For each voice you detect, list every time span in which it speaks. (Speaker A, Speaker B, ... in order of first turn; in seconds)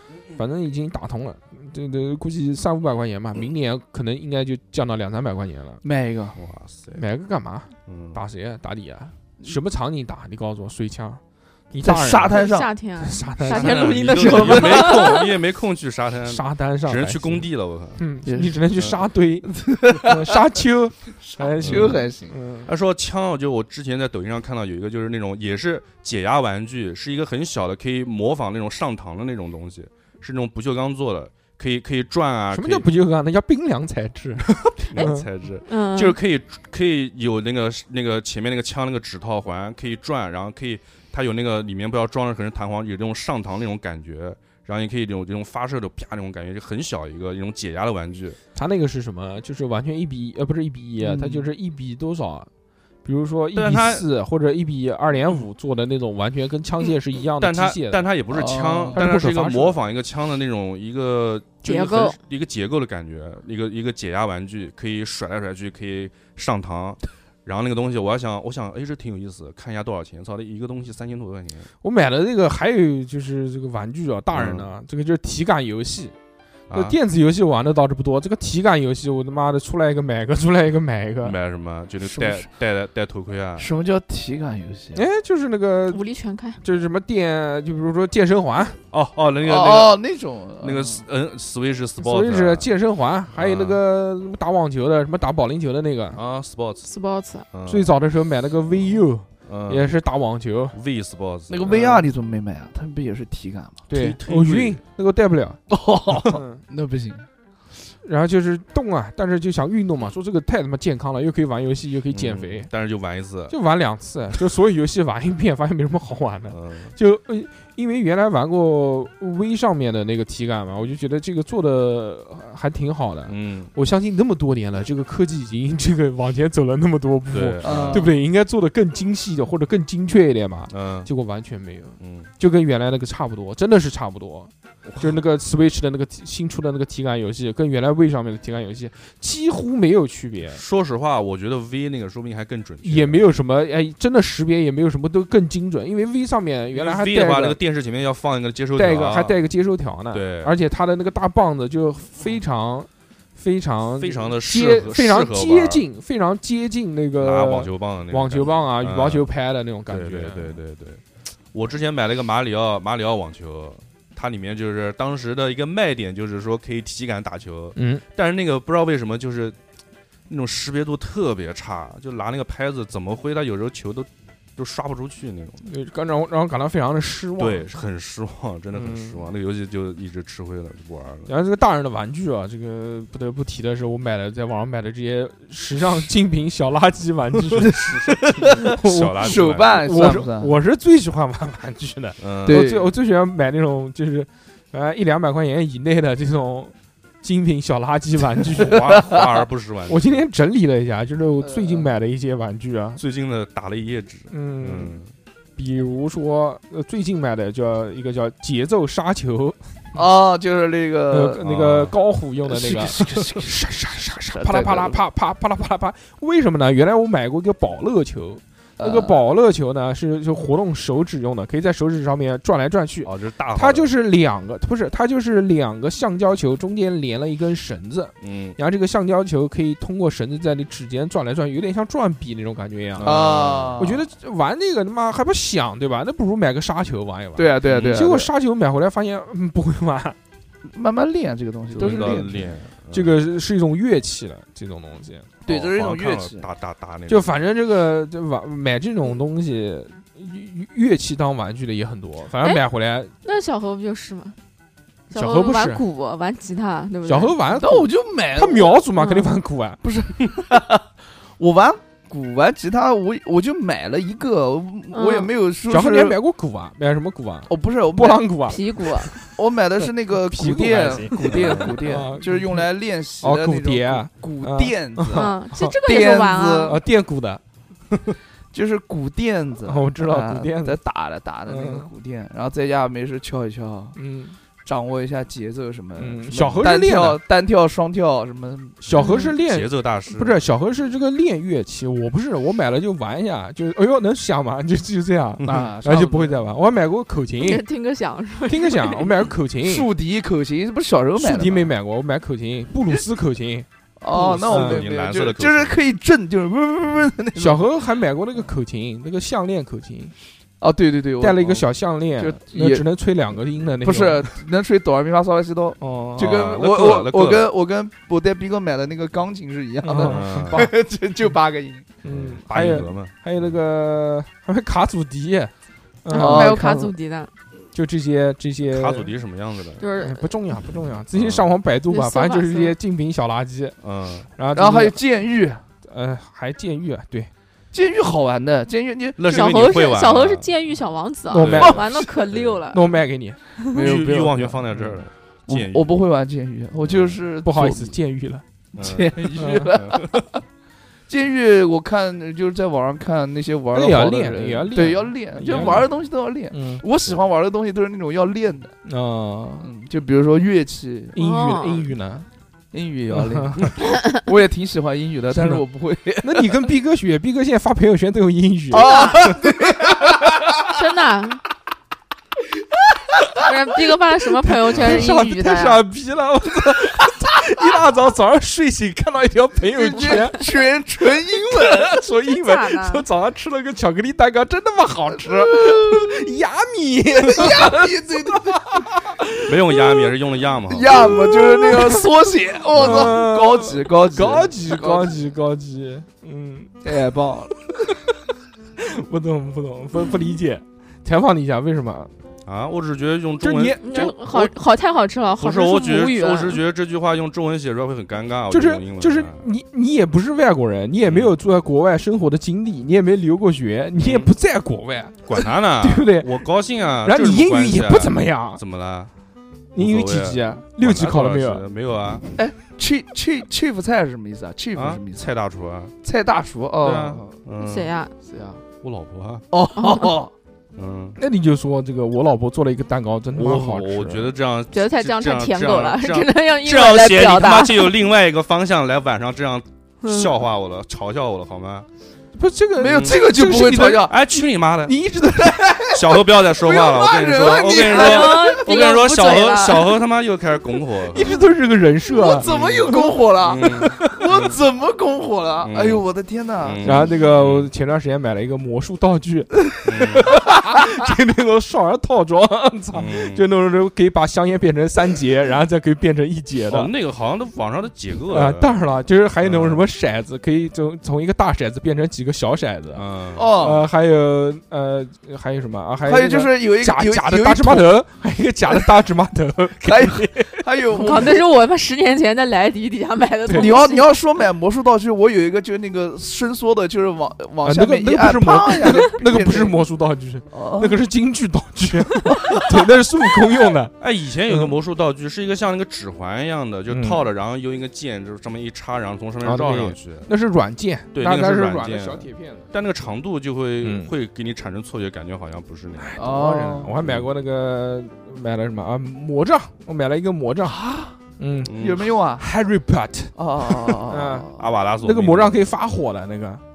Speaker A: 0.3-5.8, 7.0-12.4, 13.0-14.1, 16.2-17.5, 18.0-22.7, 32.5-35.3, 48.5-52.5, 53.0-58.0, 59.0-59.8, 71.8-76.2, 76.7-81.4, 84.9-86.0, 86.6-88.8, 92.0-96.2, 97.7-100.8, 103.9-105.6, 106.2-106.6, 108.0-112.7, 113.5-140.6, 142.8-147.6, 148.8-160.6, 167.8-168.0, 175.6-177.7, 178.7-179.2, 181.3-187.8, 188.4-198.8, 199.9-203.0, 204.3-205.0, 205.6-209.6, 211.1-233.2, 233.8-240.2, 241.9-242.2, 242.9-245.3, 247.1-253.1, 255.1-255.8, 257.1-259.8, 265.7-269.2, 270.2-272.6, 273.2-275.8, 276.6-277.4, 279.7-280.8, 281.5-281.9, 283.9-284.4, 286.0-287.2, 288.8-297.6, 298.5-299.9, 301.2-303.7, 304.4-304.9, 307.4-310.1, 311.2-314.3, 315.8-316.4, 319.8-320.6, 322.0-325.5, 326.0-326.6, 327.7-329.1, 330.0-333.8, 334.4-335.0, 335.8-337.3, 341.3-342.1, 342.7-343.4, 344.7-345.0, 347.4-348.4, 349.4-349.7, 353.7-355.9, 356.5-356.8, 358.9-359.7, 361.1-362.3, 363.1-363.8, 365.3-365.6, 366.2-369.4, 374.6-380.4, 381.5-390.1, 391.6-392.0, 392.8-396.7, 398.8-402.1, 403.4-404.5, 408.5-416.4, 417.0-418.6, 419.7-421.6, 431.2-434.3, 442.4-445.9, 451.1-453.1, 453.7-454.3, 456.8-466.9, 468.3-473.0, 473.6-480.6, 483.5-483.8, 487.6-493.9, 494.5-494.8, 496.9-497.2, 499.4-502.7, 503.8-504.1, 506.0-510.8, 511.4-511.8, 512.4-514.5, 515.0-516.6
Speaker B: 5.8-6.4, 11.8-12.7, 13.8-15.1, 18.3-18.6, 19.5-20.3, 21.3-22.4, 51.0-51.5, 58.3-59.0, 82.0-82.5, 83.6-85.0, 89.4-91.0, 101.5-103.9, 105.7-107.3, 127.6-128.1, 187.6-190.5, 192.5-192.9, 198.7-199.2, 201.4-201.9, 209.9-211.4, 212.5-213.6, 214.1-215.0, 218.8-219.2, 233.0-234.0, 237.4-238.3, 240.7-242.5, 245.4-246.5, 257.6-258.8, 259.8-260.8, 261.4-266.2, 267.5-268.2, 269.3-275.3, 275.8-276.8, 278.5-284.0, 284.6-288.8, 295.4-296.4, 299.6-301.7, 304.0-307.6, 310.6-311.6, 312.2-312.9, 313.8-321.9, 326.1-326.9, 334.6-335.6, 337.7-339.5, 343.7-344.6, 345.5-347.9, 348.8-350.2, 351.1-358.7, 359.6-361.1, 362.7-366.6, 368.7-370.4, 379.7-381.9, 385.5-386.0, 387.3-388.6, 390.7-395.1, 396.8-397.5, 422.4-425.3, 426.0-427.3, 428.3-428.6, 429.5-430.3, 442.8-444.1, 445.4-448.6, 452.1-457.0, 473.4-473.9, 476.1-478.0, 479.8-481.4, 483.5-489.8, 490.5-491.0, 506.2-506.9, 510.7-511.1, 511.8-512.5, 513.4-514.6
Speaker C: 6.4-7.0, 7.9-8.2, 13.4-18.0, 21.6-22.0, 22.7-32.9, 34.6-48.4, 53.5-54.1, 57.4-71.7, 74.3-74.7, 76.7-77.0, 81.2-83.7, 88.9-90.0, 90.6-92.7, 93.3-93.8, 96.1-96.9, 97.5-97.9, 99.5-99.9, 100.7-102.0, 103.9-104.8, 112.1-113.6, 116.5-116.9, 123.3-123.7, 127.3-128.1, 130.7-131.1, 132.0-132.3, 134.9-135.2, 140.5-143.3, 146.7-149.3, 150.1-150.5, 154.0-155.8, 157.2-159.3, 159.9-169.6, 170.3-175.7, 177.4-181.3, 187.5-189.9, 192.2-192.7, 198.6-200.2, 203.0-205.1, 211.4-212.0, 223.0-223.9, 228.2-228.6, 233.0-233.8, 237.7-238.0, 241.8-243.1, 245.5-247.3, 271.2-271.7, 288.9-290.4, 304.2-305.8, 316.2-317.5, 320.0-320.7, 322.0-323.4, 328.7-329.8, 331.1-331.5, 333.8-334.3, 339.2-340.5, 341.4-342.6, 343.7-345.9, 346.9-347.2, 348.8-350.2, 355.5-355.8, 374.7-375.1, 389.4-391.5, 392.8-393.1, 402.5-404.1, 405.4-409.4, 411.0-411.3, 414.0-414.3, 415.3-419.1, 419.8-422.2, 424.8-425.9, 426.8-427.9, 428.8-429.4, 430.8-431.2, 433.3-441.9, 442.9-443.2, 443.9-445.0, 445.9-451.4, 452.4-454.5, 455.6-456.0, 456.6-457.7, 459.8-460.4, 462.9-463.4, 466.7-468.8, 469.4-469.8, 472.9-473.6, 494.0-500.3, 501.1-506.2, 507.0-507.3, 511.6-512.1, 514.6-515.7
Speaker D: 12.3-15.3, 35.7-36.2, 61.6-62.2, 85.9-86.6, 96.8-97.5, 253.2-254.4, 255.1-257.4, 259.0-259.3, 264.9-265.3, 268.5-269.1, 275.1-276.8, 288.9-289.3, 297.4-299.2, 326.1-327.3, 329.8-330.3, 331.9-332.8, 339.3-342.8, 361.2-361.9, 368.8-369.2, 370.6-371.4, 373.4-375.8, 382.3-383.1, 403.8-406.6, 427.6-428.1, 429.8-430.1, 434.7-437.9, 440.0-440.4, 447.9-450.0, 480.9-484.1